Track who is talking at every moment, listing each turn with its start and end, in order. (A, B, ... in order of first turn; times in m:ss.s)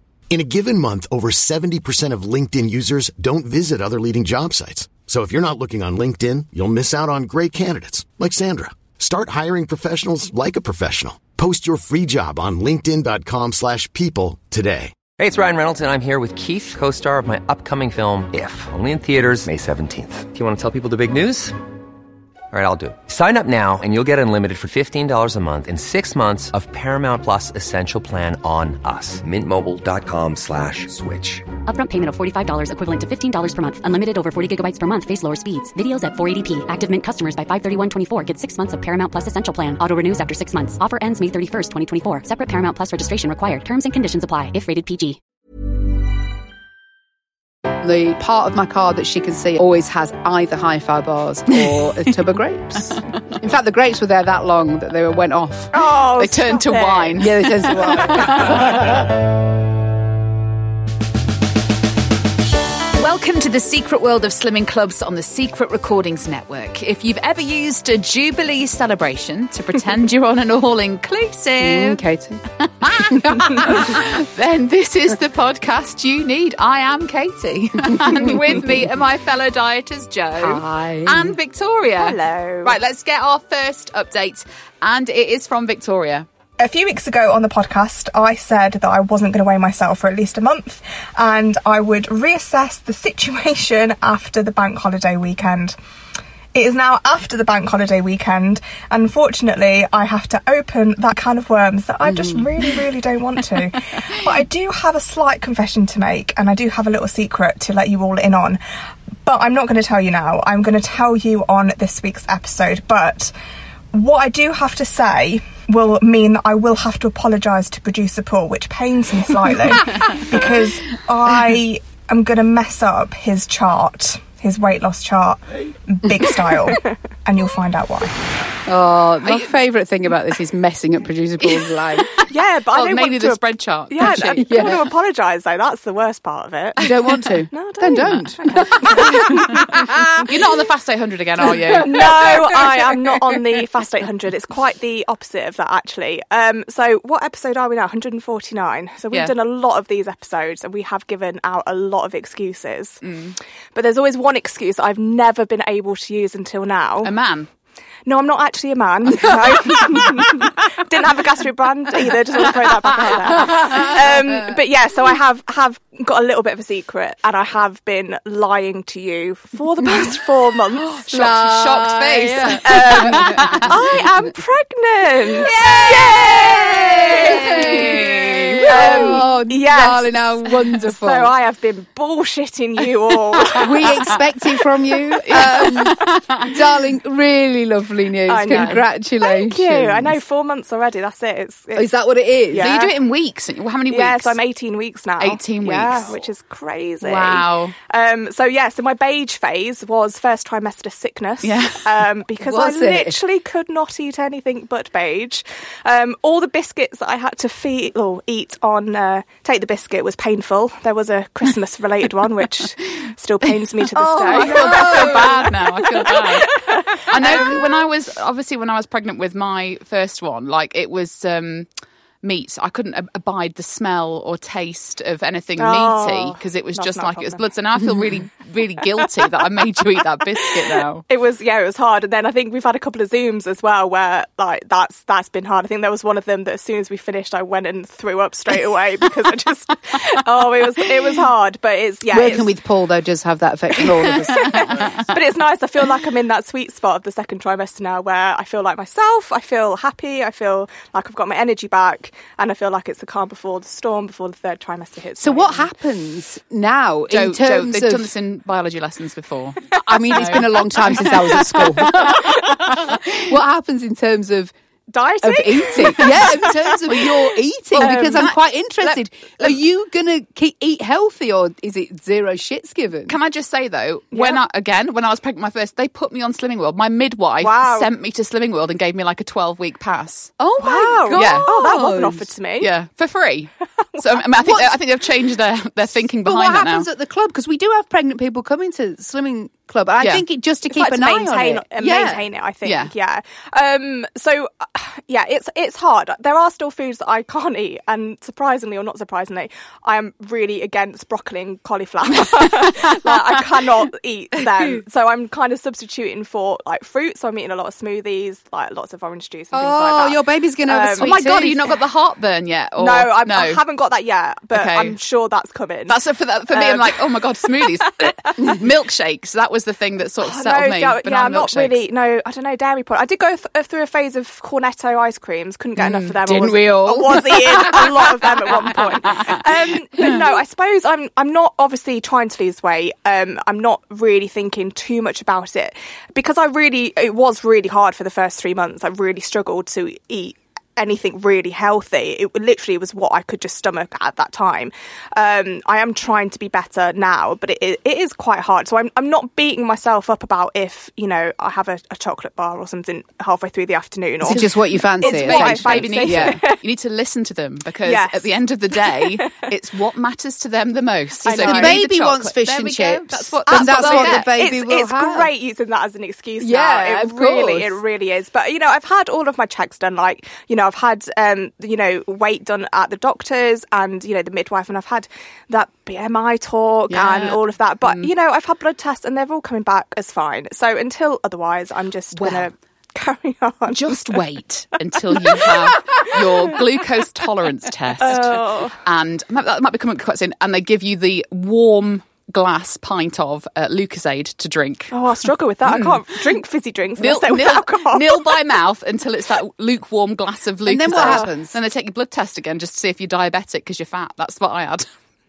0:00.3-0:15.0 A
0:15.2-0:21.6 B
0:22.5-0:31.4 B
0:31.7-0:45.2 C
0:47.8-0:55.8 D
0:55.7-0:57.3 E
0:56.2-0:58.8 F
0:57.2-0:58.9 D
1:03.0-1:12.0 F
1:11.6-1:14.0 D
1:12.6-1:26.3 F
1:18.1-1:18.4 D
1:20.4-1:21.4 D
1:22.0-1:22.8 E
1:26.6-1:35.8 E
1:36.6-1:48.6 E
1:42.1-1:42.5 D
1:49.2-1:53.3 E
1:53.9-2:08.2 E
2:08.7-2:12.2 D
2:09.2-2:09.5 F
2:11.4-2:14.8 F
2:12.3-2:17.0 E
2:14.0-2:14.8 D
2:16.8-2:20.1 D
2:17.5-2:20.3 E
2:17.9-2:19.6 F
2:20.2-2:22.3 F
2:21.8-2:33.0 E
2:33.0-2:33.4 F
2:33.8-2:37.1 E
2:37.0-2:37.5 F
2:38.1-2:51.5 E
2:51.1-2:53.8 F
2:51.1-2:53.8 D
2:52.6-3:04.2 E
2:55.4-3:01.3 D
2:55.4-2:55.9 F
2:57.1-2:59.2 F
3:03.5-3:10.2 D
3:05.2-3:06.6 F
3:08.3-3:11.9 E
3:08.5-3:08.8 F
3:11.8-3:12.7 D
3:12.5-3:12.9 E
3:12.6-3:14.4 F
3:13.9-3:37.8 E
3:15.2-3:16.1 F
3:17.0-3:17.8 F
3:21.4-3:21.9 F
3:22.4-3:23.2 D
3:34.0-3:41.7 F
3:34.0-3:35.5 D
3:37.2-3:37.6 D
3:42.2-3:51.0 F
3:45.6-3:47.4 E
3:50.4-4:02.5 E
4:02.1-4:05.0 D
4:04.1-4:15.7 E
4:04.3-4:05.0 F
4:15.2-4:18.1 D
4:17.1-4:23.1 F
4:19.8-4:24.5 D
4:24.9-4:27.1 E
4:25.2-4:33.2 D
4:27.7-4:28.4 F
4:27.8-4:28.3 E
4:33.1-4:41.5 F
4:34.1-4:34.4 E
4:37.4-4:37.9 E
4:40.5-4:42.3 D
4:40.6-4:42.7 E
4:42.6-4:46.9 F
4:44.0-4:44.6 E
4:44.4-4:44.8 D
4:46.2-4:52.3 D
4:50.7-5:11.2 E
4:52.6-4:52.9 F
5:09.5-5:11.8 D
5:11.0-5:13.6 F
5:12.8-5:16.0 E
5:14.5-5:15.0 F
5:15.9-5:21.8 F
5:16.5-5:17.0 E
5:17.6-5:18.5 E
5:20.2-5:56.6 E
5:25.8-5:26.1 F
5:26.2-5:28.3 D
5:28.5-5:29.3 F
5:54.2-5:56.4 D
5:55.0-6:04.3 F
5:57.8-5:59.5 E
6:01.2-6:01.8 E
6:01.4-6:05.3 D
6:03.5-6:24.2 E
6:06.4-6:07.8 D
6:16.9-6:17.3 F
6:17.0-6:17.4 D
6:22.2-6:22.4 F
6:23.7-6:36.0 F
6:25.1-6:26.6 E
6:28.0-6:28.8 E
6:34.9-6:38.4 E
6:37.0-6:44.9 F
6:40.6-6:41.6 D
6:40.9-6:41.3 E